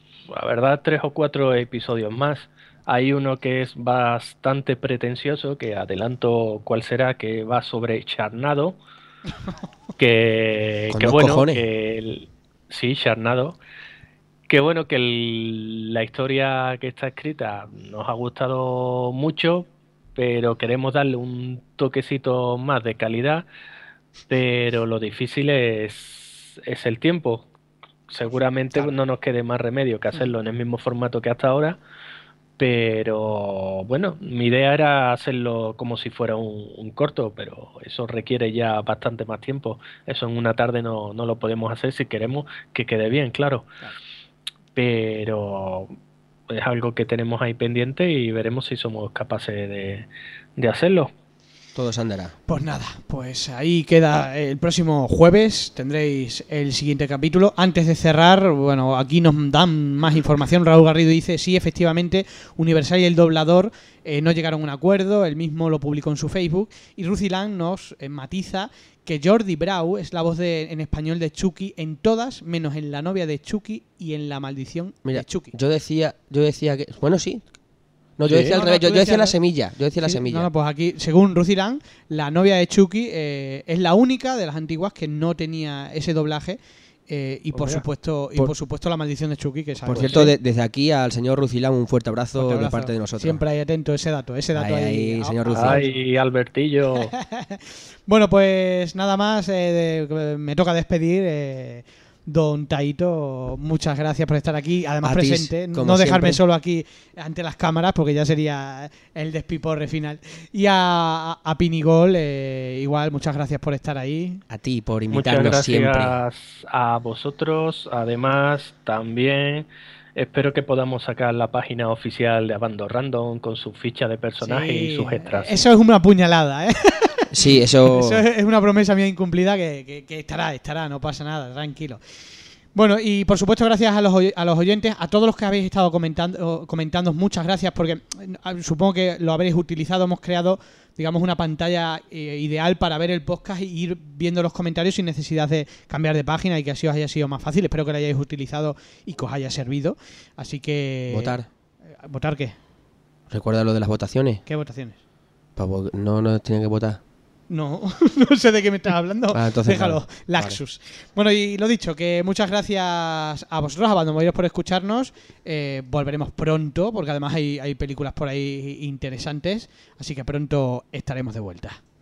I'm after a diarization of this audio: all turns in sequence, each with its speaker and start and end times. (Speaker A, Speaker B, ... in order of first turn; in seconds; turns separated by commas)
Speaker A: 0.3-8.8, Speaker A: 10.0-13.6, Speaker B: 10.9-11.7, Speaker A: 14.5-23.5, Speaker A: 24.3-27.5, Speaker A: 28.1-31.8, Speaker A: 32.6-43.7, Speaker A: 44.8-45.9, Speaker A: 46.5-51.1, Speaker B: 51.8-52.3, Speaker C: 52.5-75.5, Speaker B: 75.0-77.5, Speaker B: 78.2-80.5, Speaker A: 78.3-78.5, Speaker C: 78.3-79.4, Speaker C: 80.0-90.3, Speaker A: 87.5-87.8, Speaker B: 89.9-93.4, Speaker C: 92.4-96.0, Speaker B: 94.5-95.8, Speaker A: 95.5-97.1, Speaker C: 97.1-114.4, Speaker B: 105.0-106.4, Speaker B: 114.5-116.2, Speaker A: 115.1-125.6, Speaker C: 124.4-127.3, Speaker B: 127.3-128.2, Speaker C: 127.8-132.0, Speaker C: 132.8-151.4, Speaker B: 151.1-151.5, Speaker C: 152.0-152.6, Speaker B: 153.3-154.4, Speaker C: 154.5-155.0, Speaker B: 155.6-157.0, Speaker C: 157.5-171.8, Speaker B: 159.3-160.6